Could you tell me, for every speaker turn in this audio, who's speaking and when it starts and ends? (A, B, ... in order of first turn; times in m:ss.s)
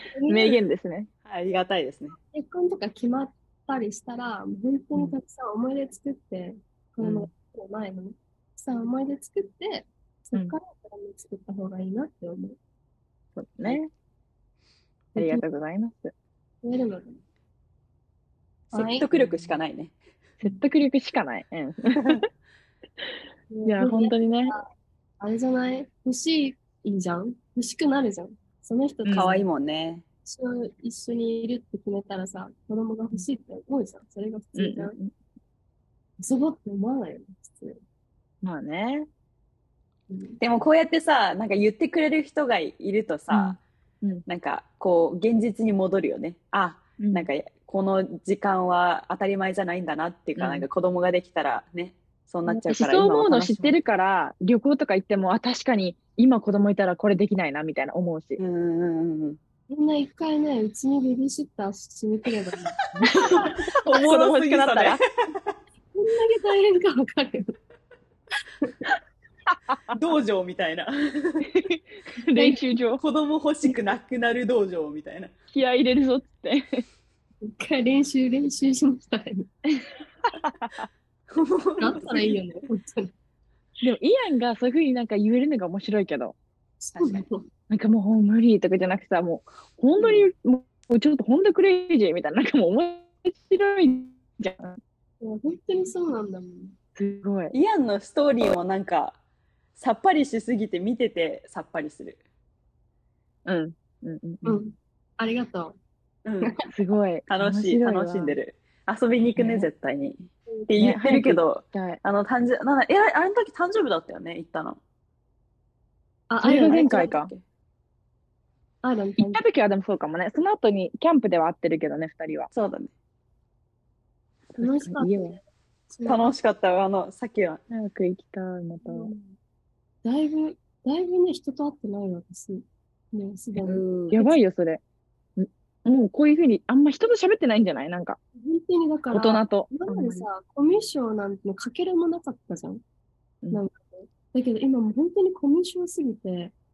0:00.1-0:00.6 A
0:00.3-0:01.1 B
0:01.2-0:02.2 C
0:02.3-0:12.6 A
0:07.0-0:07.3 B
0:13.4-0:13.9 B
0:15.1-0:15.4 A
0:15.2-0:16.1 B
0:16.6-0:17.2 A
0:18.7-0:19.9 C
0:18.7-0:19.1 A
0:20.4-0:22.2 B
0:23.5-0:24.7 A
0:23.6-0:24.5 B
0:25.2-0:29.4 A
0:29.0-0:29.3 B
0:29.1-0:30.0 C
0:30.2-0:35.0 A
0:34.6-0:35.1 B
0:36.2-0:37.8 A
0:38.4-0:39.1 B
0:40.1-0:40.4 A
0:40.4-0:43.6 C
0:43.3-0:44.2 B
0:44.3-0:53.8 C
0:47.0-0:47.3 B
0:50.4-0:50.6 B
0:52.5-0:58.4 B
0:58.4-0:59.4 C
0:59.7-1:03.3 A
1:03.0-1:05.0 B
1:03.2-1:05.0 C
1:05.9-1:07.5 A
1:09.9-1:11.5 C
1:11.6-1:13.0 B
1:12.3-1:12.6 A
1:13.0-1:15.3 C
1:15.5-1:16.6 B
1:17.4-1:19.5 A
1:20.4-1:20.7 B
1:21.4-1:22.4 C
1:21.8-1:23.1 A
1:23.8-1:26.4 B
1:26.8-1:27.4 A
1:26.9-1:27.2 C
1:27.7-1:34.8 B
1:30.0-1:30.3 C
1:35.2-1:36.8 A
1:37.0-1:37.5 B
1:37.5-1:39.2 C
1:39.8-1:42.2 C
1:43.5-1:44.6 B
1:44.4-1:45.7 A
1:46.2-1:46.6 C
1:46.4-1:46.7 A
1:46.7-1:48.4 B
1:47.3-1:54.8 C
1:49.4-1:49.7 B
1:50.8-1:52.0 B
1:56.3-1:57.2 A
1:56.4-1:57.3 B
1:56.6-1:57.4 C
1:58.8-1:59.4 A
1:59.2-2:02.5 B
2:02.5-2:02.9 C
2:04.6-2:06.3 A
2:04.6-2:05.4 B
2:06.0-2:07.6 C
2:07.7-2:09.1 B
2:08.8-2:09.4 A
2:10.0-2:14.4 A
2:13.6-2:14.1 C
2:14.1-2:14.8 B
2:15.4-2:18.2 B
2:18.3-2:22.8 A
2:19.1-2:20.2 B
2:23.5-2:26.5 A